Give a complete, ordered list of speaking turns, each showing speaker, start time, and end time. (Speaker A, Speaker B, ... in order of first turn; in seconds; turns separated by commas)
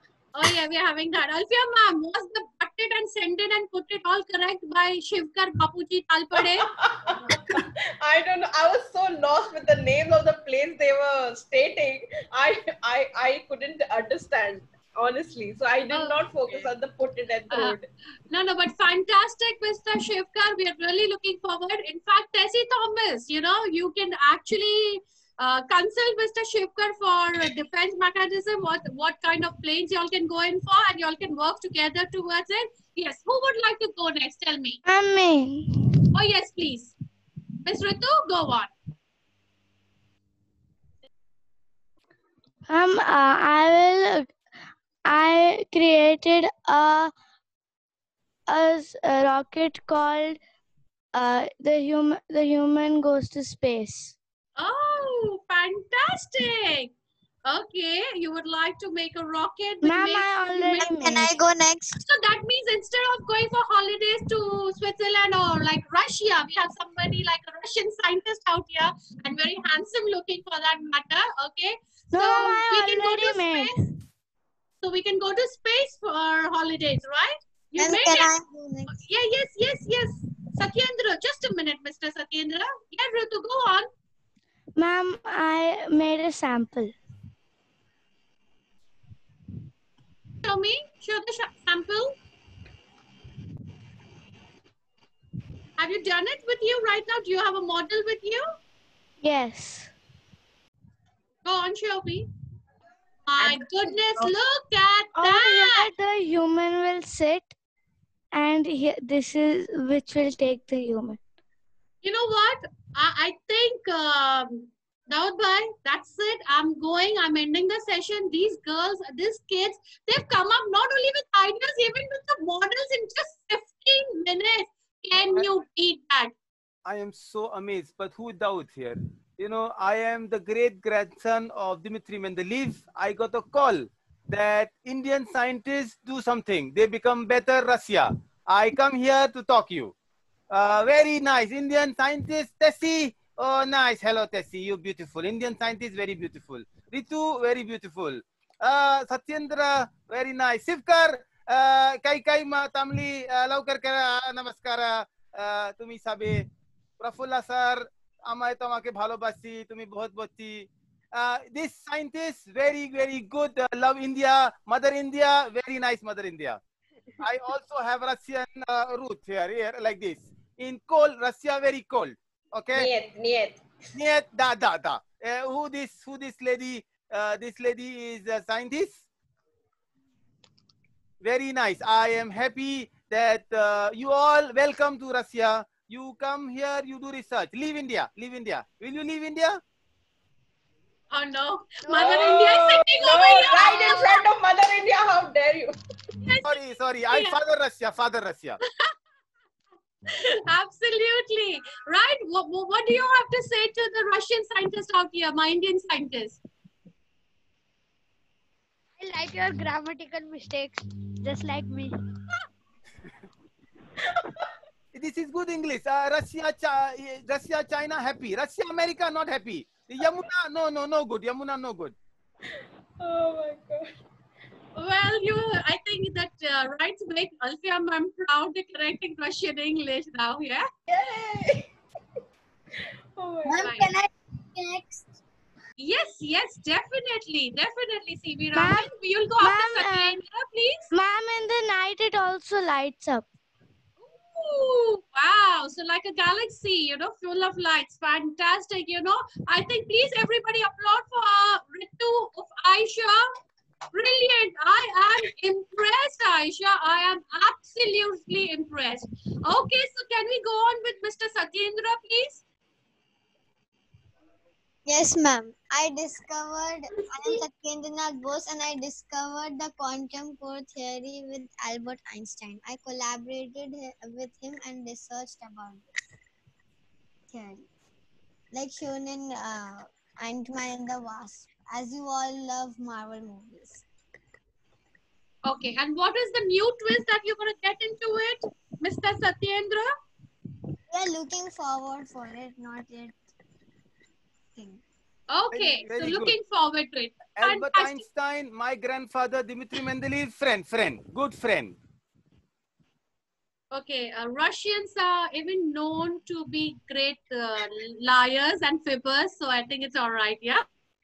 Speaker A: 0.3-6.7, Speaker B: 6.6-17.9, Speaker A: 15.9-16.7, Speaker A: 17.5-17.8, Speaker A: 18.3-34.8, Speaker C: 34.9-35.7, Speaker A: 36.1-37.0, Speaker A: 37.6-38.7, Speaker C: 42.7-44.3, Speaker C: 45.1-47.1, Speaker C: 48.5-50.4, Speaker C: 51.1-54.1, Speaker A: 54.6-56.9, Speaker A: 57.5-61.3, Speaker C: 59.8-61.3, Speaker D: 60.8-62.0, Speaker A: 62.0-73.8, Speaker C: 72.1-73.8, Speaker A: 74.8-78.3, Speaker D: 77.8-78.9, Speaker A: 78.9-83.9, Speaker C: 84.8-87.0, Speaker A: 90.4-92.2, Speaker A: 95.8-98.5, Speaker C: 99.2-99.9, Speaker A: 101.4-102.3, Speaker A: 103.3-105.9, Speaker B: 103.4-104.3, Speaker C: 105.2-107.5, Speaker C: 108.3-111.2, Speaker A: 112.0-126.3, Speaker E: 126.9-139.9, Speaker E: 140.5-156.5, Speaker E: 157.0-166.6, Speaker E: 167.2-172.9, Speaker B: 172.7-173.7, Speaker E: 173.9-179.0, Speaker E: 181.2-189.6, Speaker A: 191.1-194.2, Speaker F: 191.9-192.5, Speaker B: 191.9-195.7, Speaker A: 196.2-196.6, Speaker E: 196.4-198.6, Speaker A: 200.1-206.4, Speaker F: 209.0-212.0, Speaker B: 214.0-214.5, Speaker E: 214.9-221.9, Speaker B: 223.0-224.0, Speaker A: 224.8-230.7, Speaker B: 230.9-231.7, Speaker B: 233.2-233.7, Speaker A: 233.6-233.9, Speaker A: 235.8-240.9, Speaker C: 238.5-240.2, Speaker C: 240.9-243.3, Speaker A: 244.0-253.2, Speaker A: 253.9-262.4, Speaker D: 264.9-275.8, Speaker D: 277.3-277.6, Speaker D: 278.5-283.8, Speaker A: 285.4-289.9, Speaker D: 290.9-293.2, Speaker D: 294.6-294.8, Speaker A: 295.3-298.0, Speaker E: 295.5-296.4, Speaker E: 297.4-301.8, Speaker A: 303.7-310.6